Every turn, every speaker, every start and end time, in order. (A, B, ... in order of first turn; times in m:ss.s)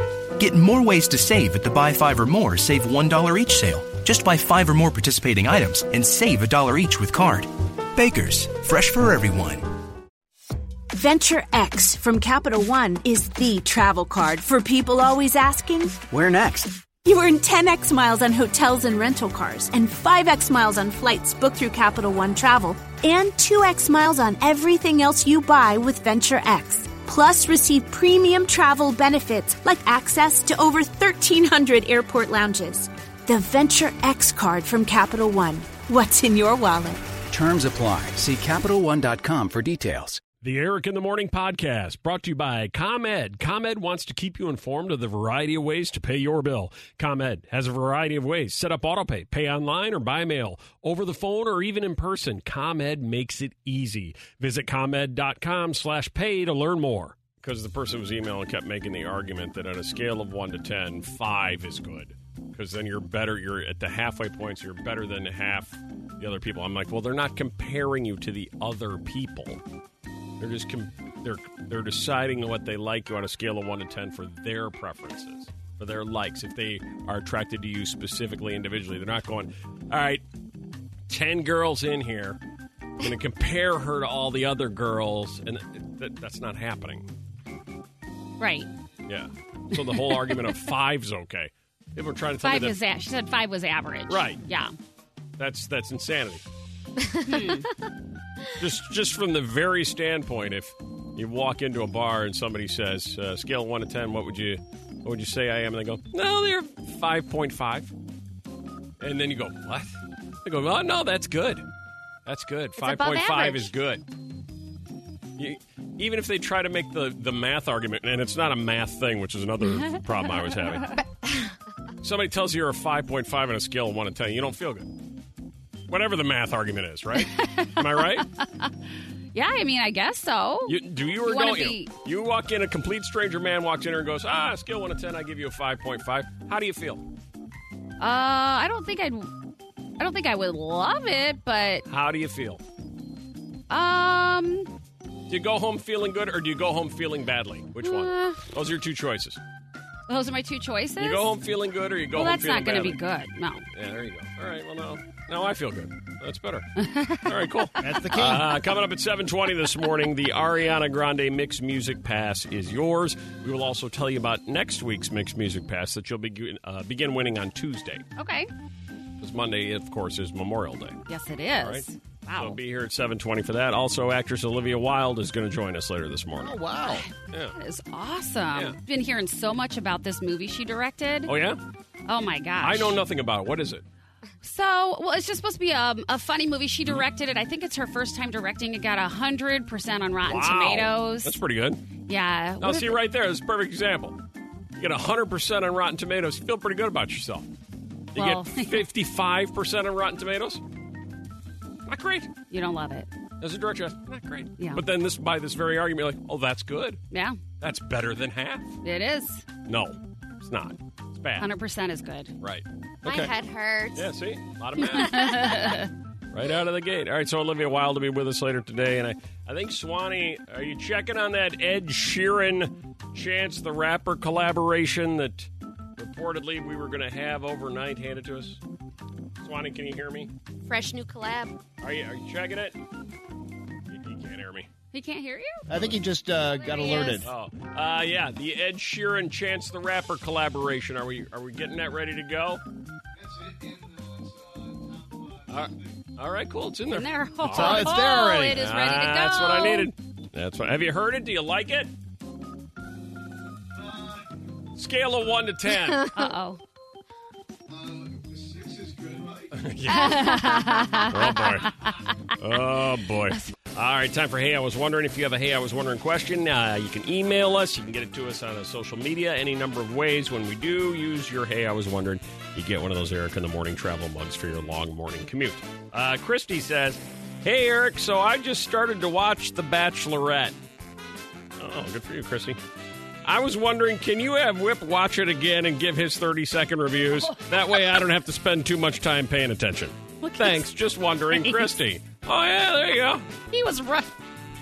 0:00.4-0:09.6 A
0:10.9-0:16.0 B
0:16.1-0:16.9 C
0:17.0-0:37.0 B
0:37.3-0:40.2 C
0:40.4-1:09.6 D
1:10.4-1:20.2 D
1:21.1-1:22.4 D
1:23.0-1:27.1 D
1:28.4-1:28.7 E
1:29.1-1:32.8 D
1:29.8-1:30.5 E
1:32.4-1:34.7 E
1:34.1-1:34.4 D
1:35.4-1:36.4 D
1:37.2-1:37.5 F
1:37.2-1:37.7 E
1:38.6-1:47.9 D
1:49.0-1:51.6 D
1:52.2-1:54.0 D
1:52.8-1:53.7 F
1:55.4-2:00.9 D
1:59.7-2:01.0 E
2:02.0-2:04.9 D
2:05.9-2:08.2 D
2:07.1-2:08.7 E
2:09.3-2:11.9 E
2:10.7-2:17.0 D
2:18.0-2:19.3 E
2:20.0-2:21.8 E
2:21.9-2:22.6 D
2:23.7-2:24.7 E
2:25.3-2:29.4 D
2:27.8-2:28.4 E
2:30.1-2:31.4 E
2:31.0-2:33.0 D
2:32.1-2:33.6 E
2:33.7-2:36.7 D
2:36.8-2:37.3 E
2:37.2-2:48.1 D
2:37.8-2:38.5 G
2:48.2-2:48.5 E
2:49.2-2:51.0 D
2:51.1-2:52.6 E
2:52.4-2:56.6 D
2:56.4-2:57.0 G
2:56.8-3:01.3 E
2:57.3-2:57.6 D
3:01.2-3:01.6 D
3:02.1-3:03.0 E
3:02.6-3:03.8 D
3:04.4-3:11.4 E
3:10.2-3:11.8 D
3:12.1-3:13.0 E
3:12.6-3:14.2 D
3:14.8-3:17.4 D
3:18.1-3:18.8 E
3:18.1-3:20.6 D
3:21.8-3:22.3 D
3:22.5-3:23.1 E
3:23.4-3:27.0 D
3:27.1-3:27.4 E
3:27.6-3:28.8 D
3:28.8-3:29.4 E
3:29.6-3:31.5 D
3:31.4-3:32.3 E
3:32.4-3:33.3 D
3:33.0-3:34.1 F
3:33.9-3:35.4 D
3:34.9-3:35.9 E
3:36.3-3:48.6 D
3:49.4-3:50.3 D
3:50.6-3:51.6 F
3:51.8-3:52.8 D
3:53.9-3:54.7 D
3:54.9-3:55.7 E
3:55.7-3:57.2 G
3:56.6-3:57.2 E
3:57.2-4:02.6 D
4:05.5-4:11.9 D
4:06.9-4:09.9 E
4:07.5-4:08.5 G
4:14.7-4:16.1 D
4:16.1-4:16.6 E
4:19.5-4:20.4 D
4:19.9-4:22.3 E
4:20.5-4:20.9 F
4:21.0-4:21.7 D
4:22.4-4:40.5 D
4:41.6-4:42.6 D
4:43.2-4:53.3 D
4:47.2-4:48.0 E
4:50.2-4:50.6 E
4:51.3-4:51.8 E
4:53.5-4:54.1 E